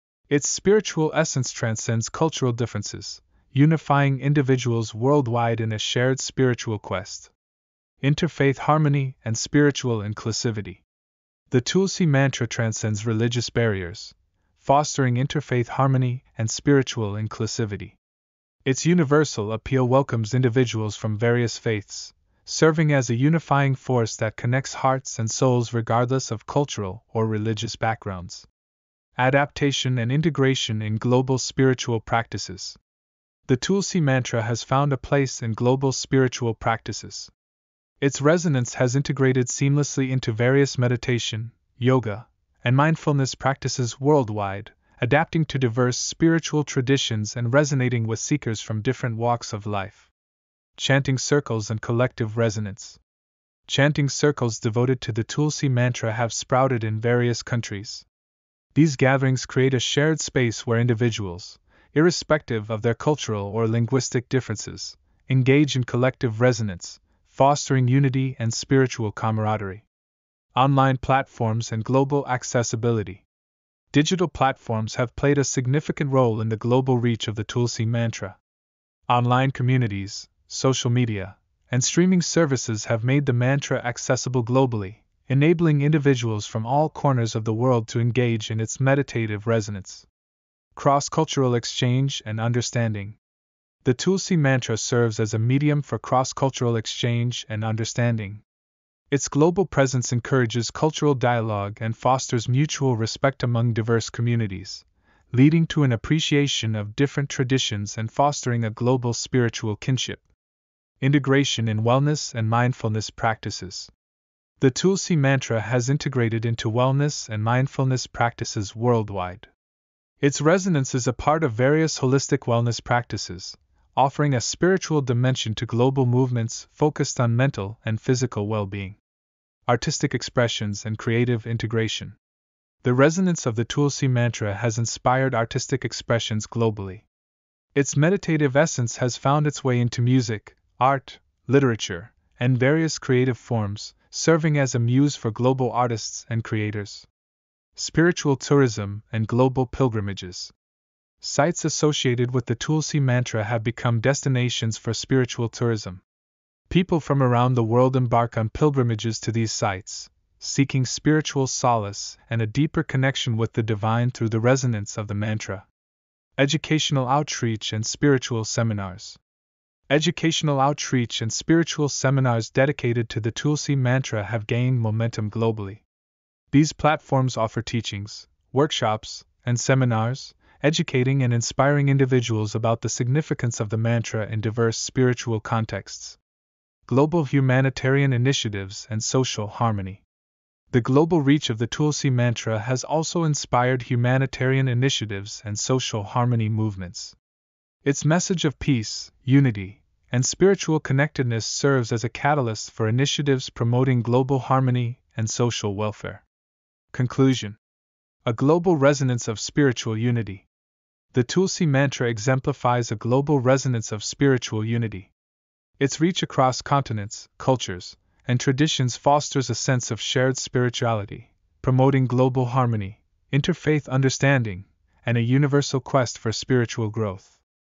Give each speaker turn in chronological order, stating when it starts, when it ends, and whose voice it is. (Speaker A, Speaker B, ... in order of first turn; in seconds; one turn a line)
Speaker A: 0.3-7.3
Speaker A: 8.0-10.8
Speaker A: 11.5-18.0
Speaker A: 18.6-28.5
Speaker A: 29.1-32.8
Speaker A: 33.5-37.3
Speaker A: 38.0-50.1
Speaker A: 50.8-53.0
Speaker A: 53.7-58.0
Speaker A: 58.7-69.8
Speaker A: 70.5-73.2
Speaker A: 73.9-78.4
Speaker A: 79.1-90.1
Speaker A: 90.7-93.2
Speaker A: 93.8-98.4
Speaker A: 99.1-110.2
Speaker A: 111.0-113.9
Speaker A: 114.6-119.5
Speaker A: 120.2-129.0
Speaker A: 129.7-132.2
Speaker A: 132.8-137.1
Speaker A: 137.7-147.1
Speaker A: 147.8-150.5
Speaker A: 151.2-156.0
Speaker A: 156.7-165.7
Speaker A: 166.4-169.2
Speaker A: 169.9-175.8
Speaker A: 176.5-186.2
Speaker A: 186.9-190.0
Speaker A: 190.7-197.2
Speaker A: 197.8-206.2
Speaker A: 206.9-207.6
Speaker A: 208.2-210.5
Speaker A: 211.1-215.1
Speaker A: 215.8-227.4